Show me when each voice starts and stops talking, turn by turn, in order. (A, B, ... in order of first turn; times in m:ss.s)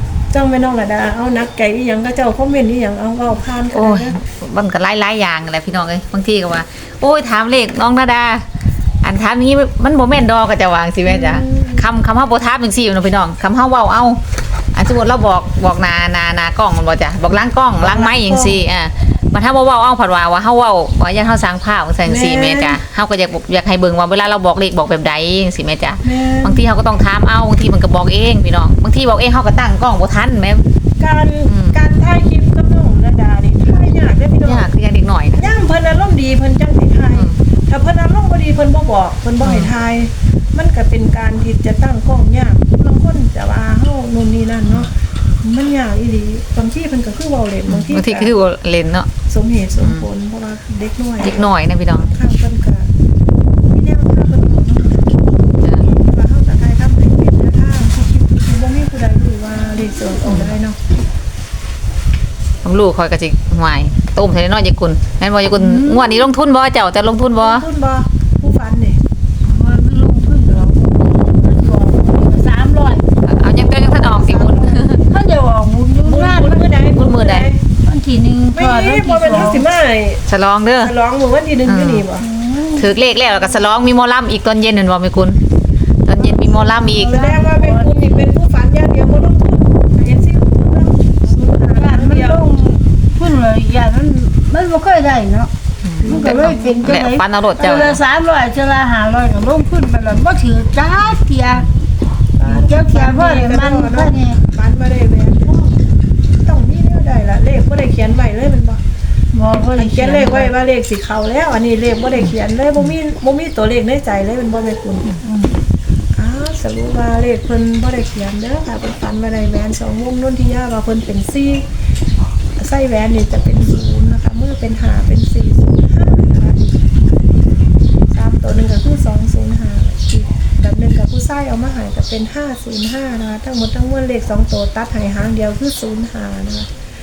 0:00.3-0:04.2 A
0:03.7-0:08.4 B
0:09.0-0:14.2 B
0:11.0-0:11.8 A
0:14.7-0:30.6 B
0:17.8-0:18.6 A
0:22.0-0:22.8 A
0:26.0-0:26.6 A
0:31.0-0:34.7 A
0:31.5-0:31.8 B
0:34.4-0:35.5 B
0:35.4-0:48.3 A
0:39.4-0:39.7 B
0:47.6-0:49.1 B
0:49.3-0:52.9 A
0:49.8-0:50.0 B
0:51.2-0:52.1 B
0:53.7-1:00.8 A
0:55.6-0:55.9 B
1:00.2-1:00.5 B
1:02.6-1:07.6 B
1:05.5-1:06.3 C
1:07.3-1:09.0 A
1:09.4-1:13.1 C
1:13.2-1:15.0 B
1:13.7-1:14.9 A
1:15.1-1:16.7 C
1:16.0-1:17.6 A
1:16.9-1:17.5 B
1:17.8-1:19.6 C
1:18.5-1:20.2 A
1:20.3-1:20.9 B
1:20.8-1:22.2 A
1:21.6-1:22.0 B
1:22.2-1:23.0 C
1:22.7-1:25.4 B
1:26.0-1:27.1 B
1:26.2-1:32.5 A
1:26.5-1:27.9 C
1:31.5-1:35.5 C
1:35.8-1:38.0 B
1:36.0-1:41.7 C
1:36.0-1:36.8 A
1:42.4-1:45.8 A
1:42.4-1:44.4 C
1:46.4-1:48.8 A
1:49.3-1:50.5 C
1:49.7-1:55.2 A
1:56.1-2:01.6 A
2:02.6-2:06.9 A
2:08.1-2:16.7 A